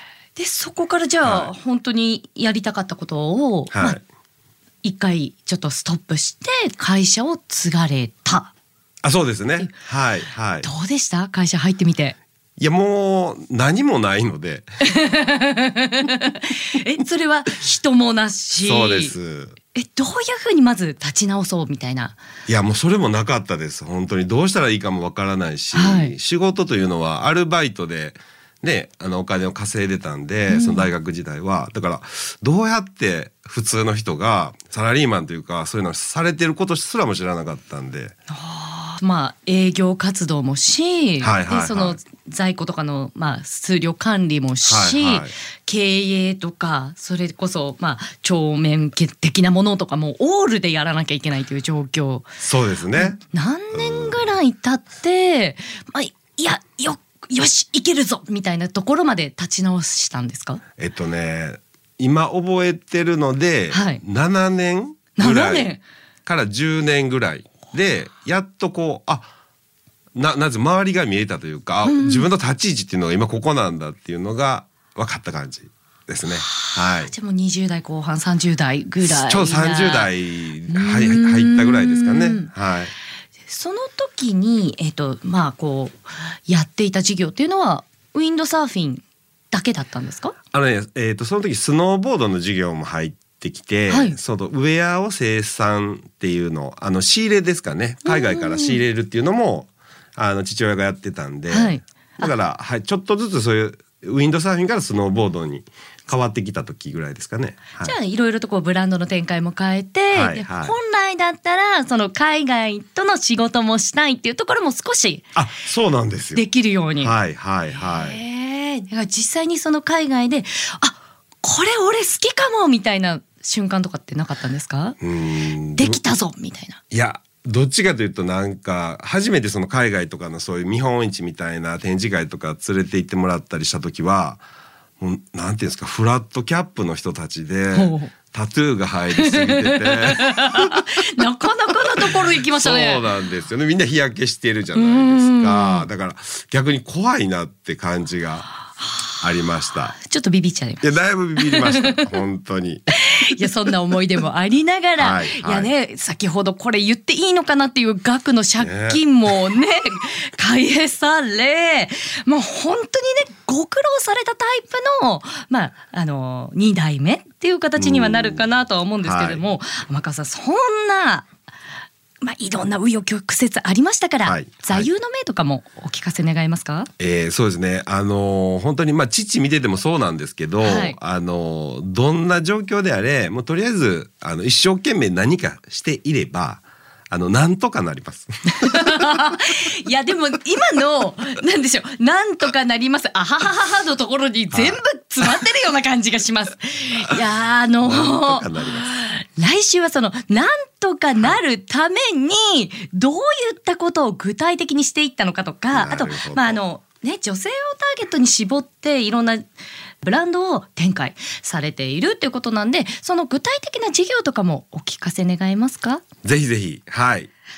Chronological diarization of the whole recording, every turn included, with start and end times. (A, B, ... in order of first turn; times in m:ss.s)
0:00.4-0:04.0 A
0:01.2-0:01.5 B
0:03.7-0:04.0 B
0:04.8-0:08.5 A
0:09.0-0:10.7 B
0:10.6-0:12.2 A
0:12.6-0:14.7 B
0:14.8-0:19.1 A
0:18.6-0:19.6 B
0:19.7-0:22.2 A
0:22.5-0:38.1 B
0:25.7-0:26.1 A
0:30.5-0:30.9 A
0:38.3-0:52.3 A
0:41.2-0:42.0 B
0:44.6-0:45.3 B
0:52.4-0:53.2 B
0:52.9-1:00.6 A
0:53.7-0:54.3 B
1:00.8-1:05.7 B
1:03.7-1:04.0 A
1:05.2-1:05.8 A
1:06.2-1:09.3 B
1:10.1-1:17.1 B
1:11.8-1:12.3 A
1:16.3-1:20.1 A
1:19.0-1:22.9 B
1:20.7-1:22.5 A
1:23.5-1:30.3 A
1:30.5-1:47.9 B
1:33.9-1:34.2 A
1:38.0-1:38.8 A
1:41.5-1:42.3 A
1:47.8-1:55.2 A
1:50.1-1:50.8 B
1:55.3-1:56.4 B
1:56.3-1:57.1 A
1:57.0-1:58.2 B
1:57.8-2:05.0 A
2:05.0-2:06.0 B
2:05.8-2:06.8 A
2:06.9-2:14.4 B
2:15.0-2:20.8 B
2:17.7-2:18.1 A
2:19.2-2:23.0 A
2:22.5-2:28.5 B
2:24.7-2:25.9 A
2:29.2-2:30.0 B
2:30.0-2:30.8 A
2:30.8-2:32.8 B
2:31.4-2:32.0 A
2:32.9-2:51.3 A
2:35.0-2:35.7 B
2:38.6-2:39.0 B
2:47.8-2:48.4 B
2:49.0-2:49.4 B
2:52.2-2:56.9 A
2:54.2-2:54.9 B
2:57.0-3:08.7 B
3:00.6-3:01.0 A
3:08.6-3:29.4 A
3:14.5-3:14.8 B
3:17.8-3:18.9 B
3:25.7-3:26.6 B
3:30.0-3:36.0 A
3:36.2-3:37.3 B